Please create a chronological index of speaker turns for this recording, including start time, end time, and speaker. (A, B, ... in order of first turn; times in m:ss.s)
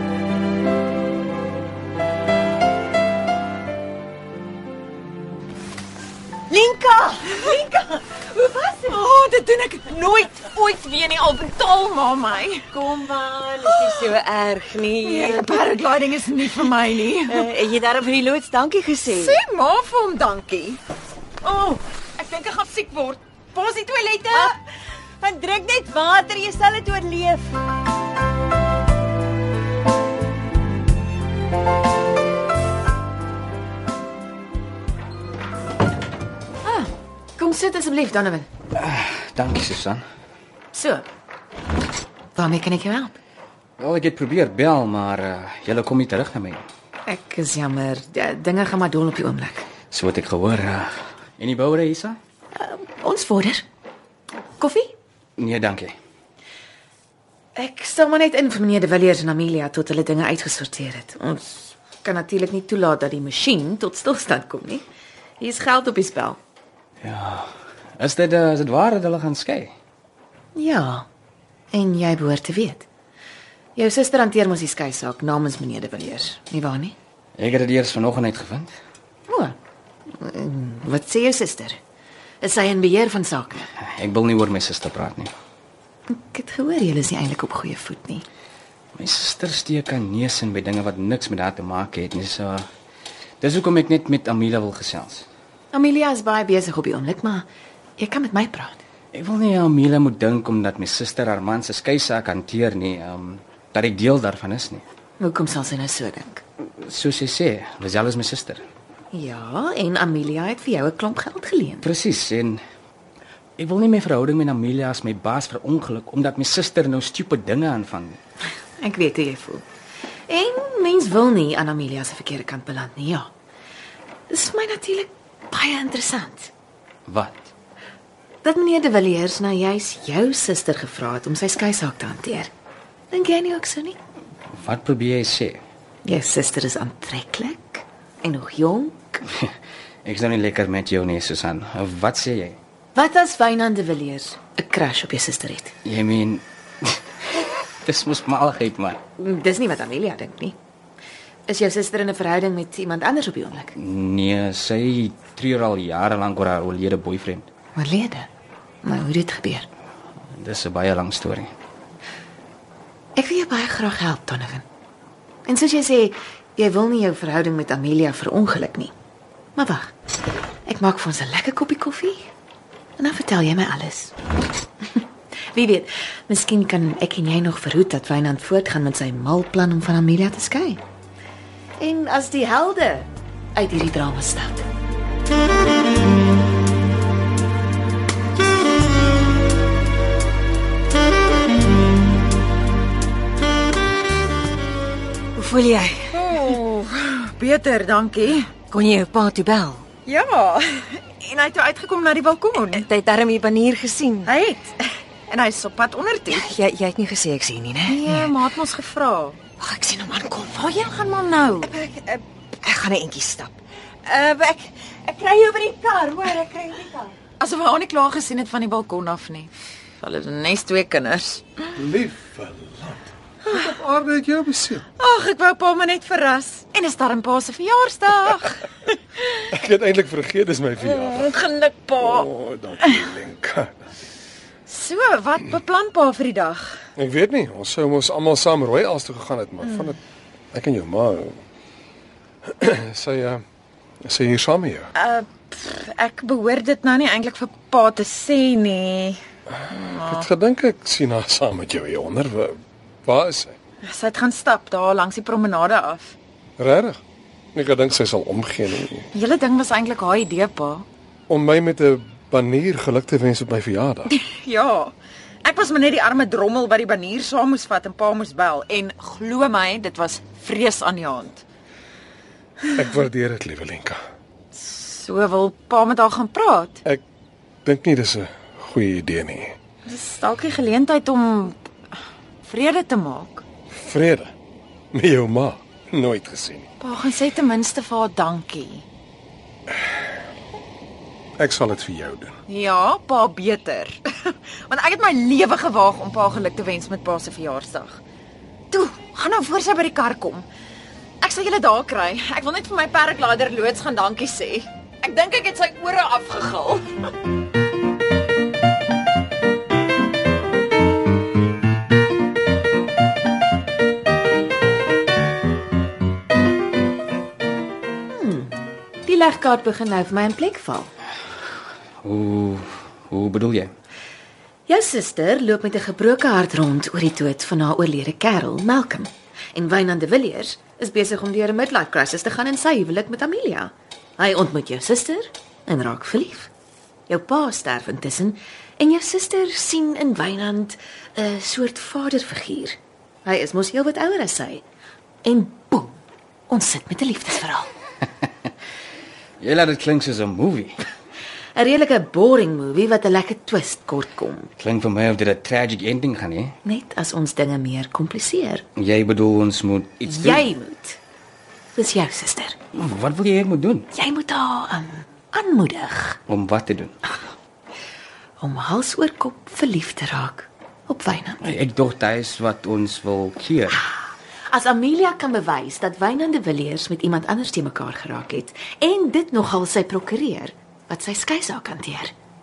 0:06.5-0:08.8 A
0:08.5-0:12.7 B
0:12.7-0:15.8 A
0:15.0-0:17.7 B
0:17.3-0:19.4 A
0:19.1-0:20.8 B
0:21.4-0:24.5 B
0:25.2-0:27.6 A
0:36.6-0:38.5 C
0:38.7-0:40.0 D
0:40.7-0:41.0 C
0:42.4-0:43.2 C
0:43.8-0:46.6 D
0:47.1-0:49.7 C
0:49.9-0:52.2 D
0:52.6-0:53.6 C
0:54.6-0:54.9 C
0:55.4-0:56.0 D
0:57.6-1:04.8 C
1:05.4-1:06.4 C
1:07.0-1:09.7 D
1:10.6-1:11.1 C
1:11.7-1:12.9 C
1:13.8-1:17.0 C
1:17.4-1:18.7 D
1:19.3-1:19.6 C
1:20.1-1:21.8 C
1:22.4-1:23.7 C
1:23.8-1:25.3 D
1:26.1-1:28.2 C
1:29.0-1:32.7 D
1:33.4-1:35.3 D
1:35.7-1:38.8 C
1:39.1-1:44.8 D
1:45.2-1:46.4 C
1:46.8-1:48.6 D
1:49.1-1:51.9 C
1:51.8-1:52.6 D
1:53.6-1:58.2 D
1:58.8-1:59.7 C
2:00.3-2:03.3 C
2:04.3-2:06.5 C
2:07.1-2:07.5 D
2:08.4-2:12.5 C
2:13.1-2:14.0 C
2:14.5-2:15.6 D
2:16.0-2:19.3 C
2:20.0-2:22.6 D
2:23.0-2:25.8 C
2:25.8-2:29.0 D
2:29.2-2:30.6 C
2:31.5-2:33.8 C
2:33.8-2:37.5 D
2:37.8-2:38.3 C
2:38.8-2:39.7 C
2:40.3-2:41.5 D
2:43.2-2:44.6 C
2:45.5-2:48.9 C
2:49.6-2:49.9 C
2:50.7-2:52.3 C
2:53.0-2:54.1 C
2:55.5-3:00.8 C
3:01.8-3:04.7 C
3:15.4-3:16.5 A
3:16.1-3:18.5 B
3:18.6-3:19.9 A
3:20.0-3:22.8 B
3:22.7-3:24.3 A
3:24.3-3:26.5 B
3:26.3-3:28.3 A
3:27.9-3:29.4 B
3:29.6-3:30.6 A
3:30.4-3:31.7 B
3:31.6-3:37.1 A
3:37.4-3:41.4 B
3:41.8-3:44.8 E
3:45.0-3:48.7 B
3:49.5-3:51.4 E
3:50.8-3:52.3 B
3:52.0-3:53.8 E
3:54.7-3:56.7 B
3:55.4-3:56.6 A
3:57.0-4:00.0 E
4:00.5-4:01.4 E
4:02.4-4:03.4 E
4:04.0-4:04.9 E
4:05.0-4:10.2 B
4:09.7-4:13.6 E
4:13.8-4:16.2 B
4:16.6-4:17.0 E
4:17.6-4:19.1 E
4:19.1-4:20.8 B
4:21.3-4:24.1 E
4:24.1-4:31.4 B
4:32.7-4:34.0 E
4:34.6-4:36.8 B
4:37.6-4:39.6 E
4:39.9-4:41.6 B
4:42.4-4:43.4 B
4:43.8-4:44.3 E
4:44.9-4:46.7 E
4:46.8-4:48.8 B
4:51.4-4:52.4 E
4:52.5-4:58.0 B
4:58.7-5:00.4 B
5:01.2-5:06.9 B
5:18.1-5:20.9 C
5:22.0-5:23.7 D
5:24.7-5:36.5 C
5:37.1-5:44.6 C
5:45.2-5:47.7 C
5:49.4-5:50.8 D
5:51.6-5:54.5 C
5:54.6-5:56.6 D
5:56.6-5:58.6 C
5:58.8-6:00.5 D
6:00.0-6:01.0 C
6:01.8-6:02.6 C
6:02.7-6:03.9 D
6:03.9-6:06.2 C
6:06.3-6:07.0 D
6:08.4-6:11.4 C
6:11.4-6:13.8 D
6:13.7-6:22.1 C